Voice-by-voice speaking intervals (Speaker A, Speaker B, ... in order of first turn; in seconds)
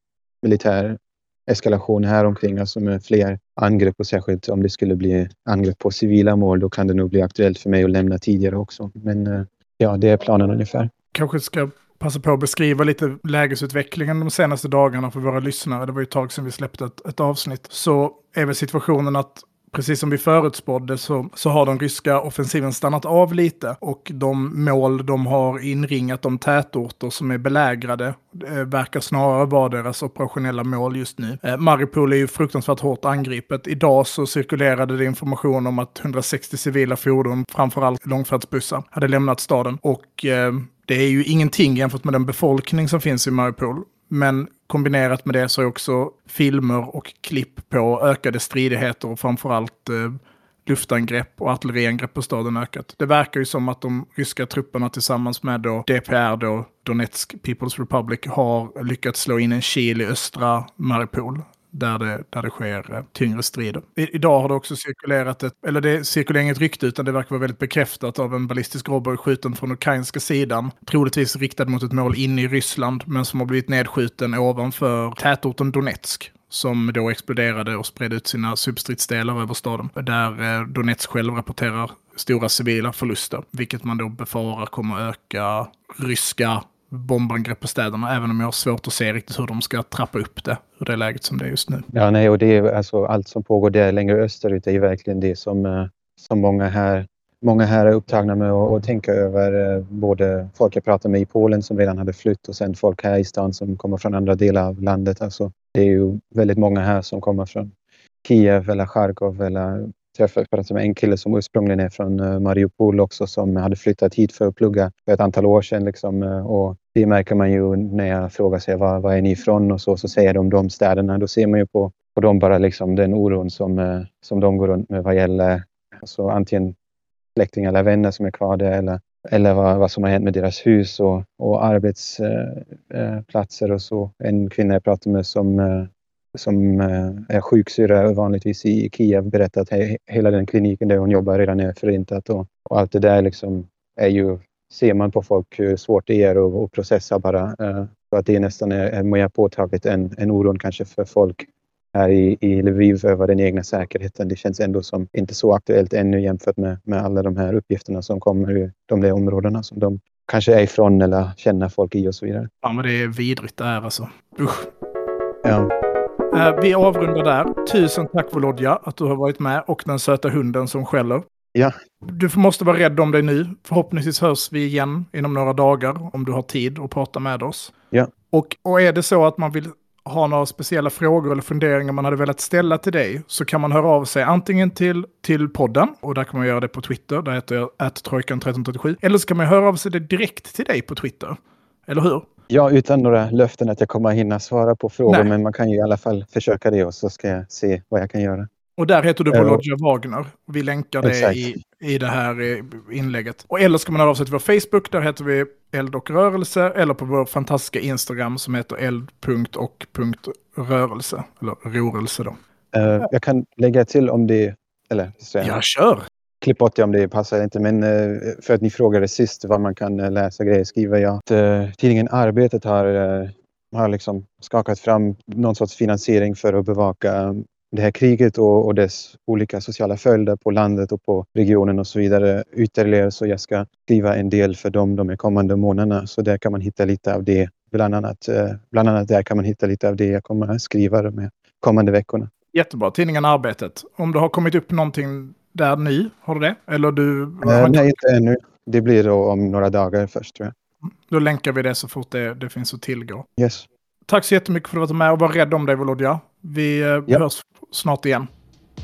Speaker A: 0.4-10.9, 91.9-107.7, 108.2-126.8, 127.3-162.5, 165.4-165.7, 192.5-198.5, 199.3-199.6, 201.0-201.6, 212.7-215.6, 216.4-242.3, 247.4-250.5, 253.4-253.7
Speaker B: 11.1-91.8, 162.6-164.7, 166.3-171.2, 172.0-177.7, 178.3-192.3, 198.8-212.3, 215.4-216.1, 242.5-247.9, 250.8-253.3, 254.1-258.3